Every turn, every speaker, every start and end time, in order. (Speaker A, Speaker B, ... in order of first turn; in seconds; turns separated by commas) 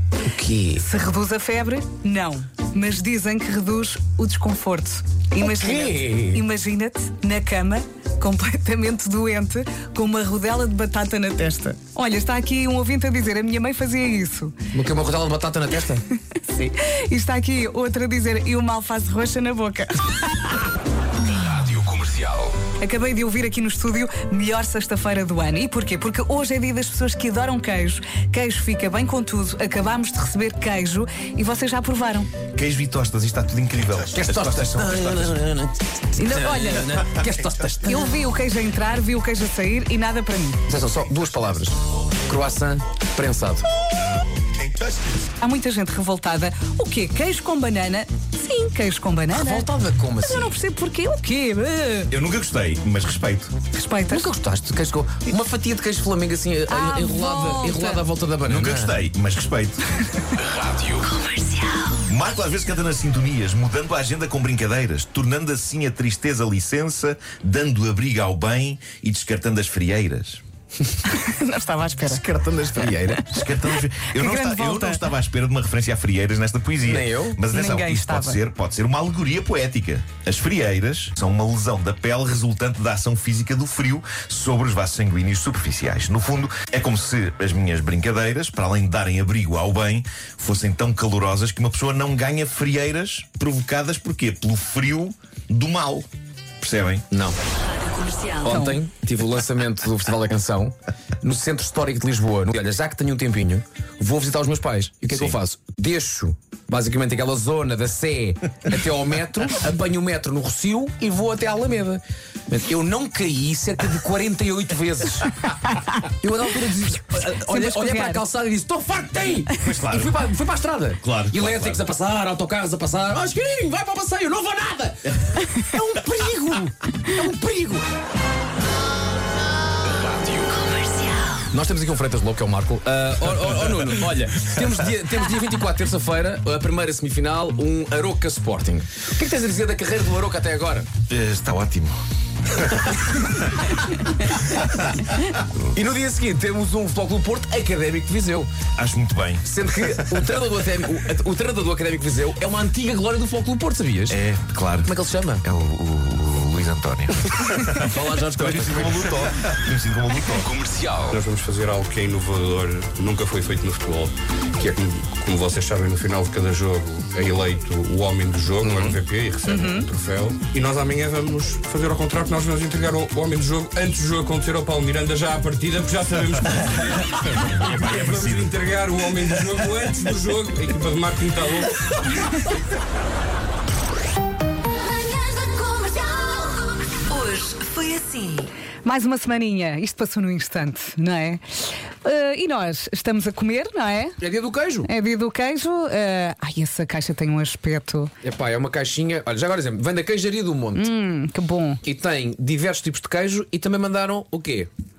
Speaker A: 0.3-0.8, Speaker B: 0.8-14.6, Speaker A: 5.4-6.4, Speaker A: 14.7-16.0, Speaker B: 16.3-20.6, Speaker A: 21.6-22.5, Speaker B: 22.6-32.3, Speaker C: 32.5-35.4, Speaker A: 34.1-38.2, Speaker B: 36.1-37.1, Speaker B: 37.8-40.6, Speaker A: 40.7-43.6, Speaker B: 45.4-49.7, Speaker A: 49.3-50.6, Speaker B: 50.2-52.1, Speaker C: 52.1-53.5, Speaker B: 53.7-54.3, Speaker A: 54.1-59.0, Speaker B: 56.7-58.0, Speaker C: 58.5-59.8, Speaker A: 60.4-61.0, Speaker B: 61.1-61.9, Speaker C: 62.0-70.4, Speaker B: 71.0-72.2, Speaker A: 72.0-73.3, Speaker C: 73.2-96.1, Speaker B: 74.1-75.0, Speaker A: 76.8-77.4, Speaker B: 77.5-78.4, Speaker C: 96.6-97.1, Speaker A: 97.1-97.4, Speaker D: 97.7-98.3, Speaker A: 98.3-127.8, Speaker B: 98.5-98.8, Speaker C: 105.1-105.3, Speaker B: 117.2-118.2, Speaker C: 119.6-120.2, Speaker C: 121.0-121.8, Speaker A: 129.9-130.8, Speaker A: 131.5-140.9, Speaker C: 141.1-142.0, Speaker C: 142.5-143.4, Speaker C: 144.2-144.8, Speaker A: 145.7-148.5, Speaker C: 148.8-149.4, Speaker A: 149.4-154.2, Speaker C: 154.1-160.6, Speaker A: 154.8-155.4, Speaker A: 157.4-159.2, Speaker A: 160.4-161.1, Speaker E: 161.0-182.1, Speaker A: 168.6-169.0, Speaker B: 169.5-169.9, Speaker C: 176.5-178.6, Speaker C: 179.2-179.7, Speaker D: 185.0-186.4, Speaker E: 186.0-187.1, Speaker D: 187.1-188.4, Speaker B: 188.8-194.2, Speaker A: 194.2-194.9, Speaker B: 194.8-198.1, Speaker A: 198.2-200.9, Speaker B: 200.7-201.8, Speaker A: 201.8-204.7